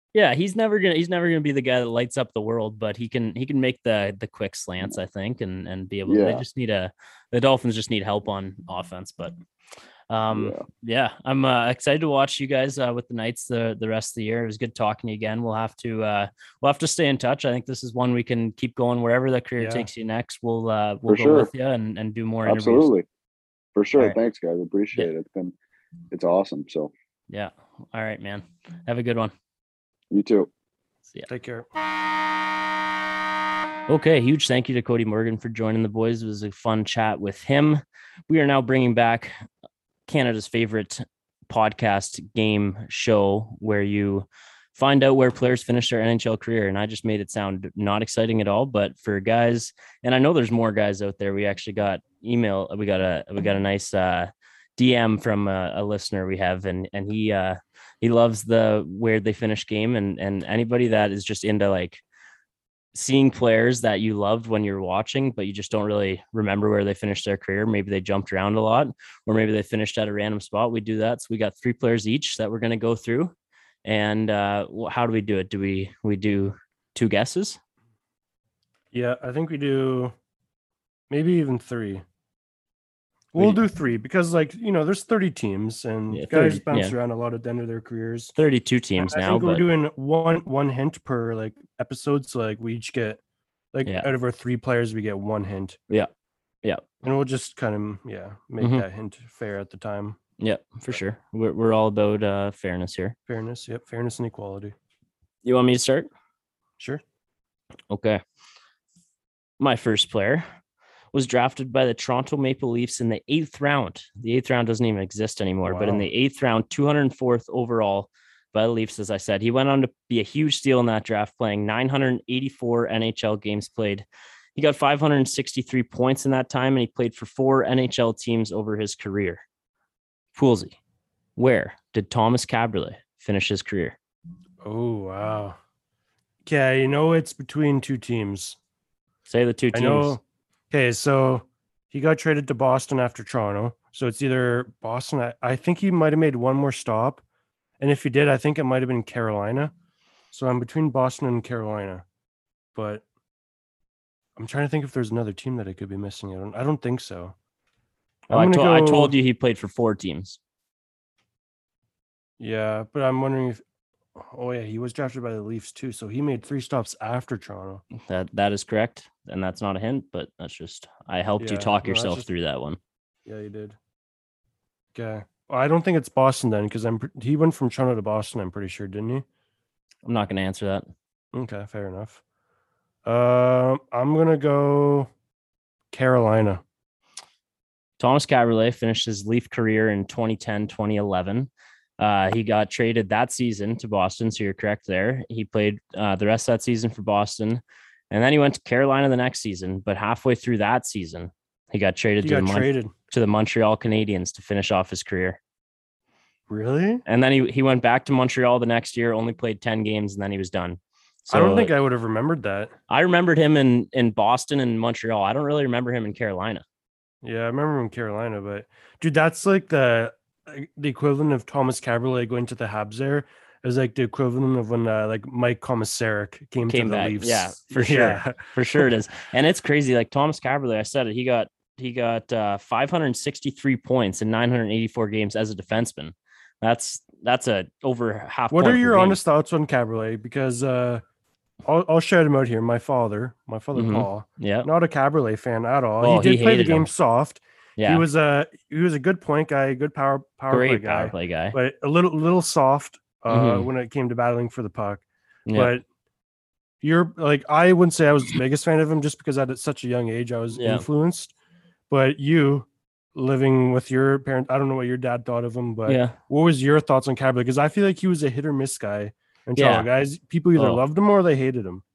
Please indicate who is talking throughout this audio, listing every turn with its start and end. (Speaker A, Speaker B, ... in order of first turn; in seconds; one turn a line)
Speaker A: 0.1-9.3
Speaker B: 6.1-6.5
Speaker A: 10.1-22.9
Speaker B: 10.3-10.6
Speaker C: 19.6-19.9
Speaker B: 21.1-21.5
Speaker B: 22.5-23.1
Speaker B: 23.8-25.6
Speaker B: 26.1-26.9
Speaker A: 27.3-29.3
Speaker B: 30.1-30.5
Speaker C: 31.3-31.7
Speaker A: 33.9-39.3
Speaker A: 40.1-62.0
Speaker A: 62.9-73.3
Speaker A: 73.8-77.6
Speaker C: 78.9-80.2
Speaker C: 81.1-82.0
Speaker C: 83.3-88.3
Speaker A: 83.4-83.6
Speaker A: 86.1-87.0
Speaker A: 88.4-89.7
Speaker C: 89.0-93.2
Speaker C: 93.7-95.8
Speaker C: 97.0-100.2
Speaker A: 98.6-98.8
Speaker A: 100.4-103.2
Speaker C: 103.3-104.8
Speaker A: 105.5-106.1
Speaker A: 107.9-108.2
Speaker A: 109.6-110.5
Speaker A: 111.1-129.4
Speaker C: 115.6-116.0
Speaker A: 130.3-130.8
Speaker A: 131.4-134.0
Speaker C: 134.6-135.6
Speaker C: 136.5-138.6
Speaker A: 139.3-140.2
Speaker C: 139.7-147.2
Speaker C: 147.8-149.7
Speaker C: 150.3-152.1
Speaker C: 152.8-153.0
Speaker C: 154.4-157.3
Speaker C: 158.3-159.1
Speaker A: 158.3-160.4
Speaker C: 162.4-163.6
Speaker C: 164.2-167.8
Speaker A: 168.0-172.8
Speaker C: 171.4-172.3
Speaker C: 173.3-173.8
Speaker C: 174.9-179.2
Speaker A: 180.1-180.9
Speaker C: 181.3-182.2
Speaker C: 183.1-185.1
Speaker C: 185.9-186.6
Speaker A: 188.0-205.4
Speaker C: 202.2-202.9
Speaker C: 206.5-207.0
Speaker A: 207.1-211.7
Speaker C: 211.3-212.7
Speaker A: 212.9-216.6
Speaker C: 217.2-228.9
Speaker A: 226.7-239.2
Speaker C: 238.5-241.0
Speaker C: 241.7-255.0
Speaker A: 243.8-244.7
Speaker A: 246.0-246.9
Speaker A: 247.8-248.1
Speaker A: 250.5-251.6
Speaker A: 253.3-253.7
Speaker C: 255.5-255.8
Speaker C: 256.8-261.3
Speaker A: 260.6-260.9
Speaker C: 261.9-271.8
Speaker A: 265.9-266.2
Speaker A: 269.6-269.9
Speaker A: 270.6-270.8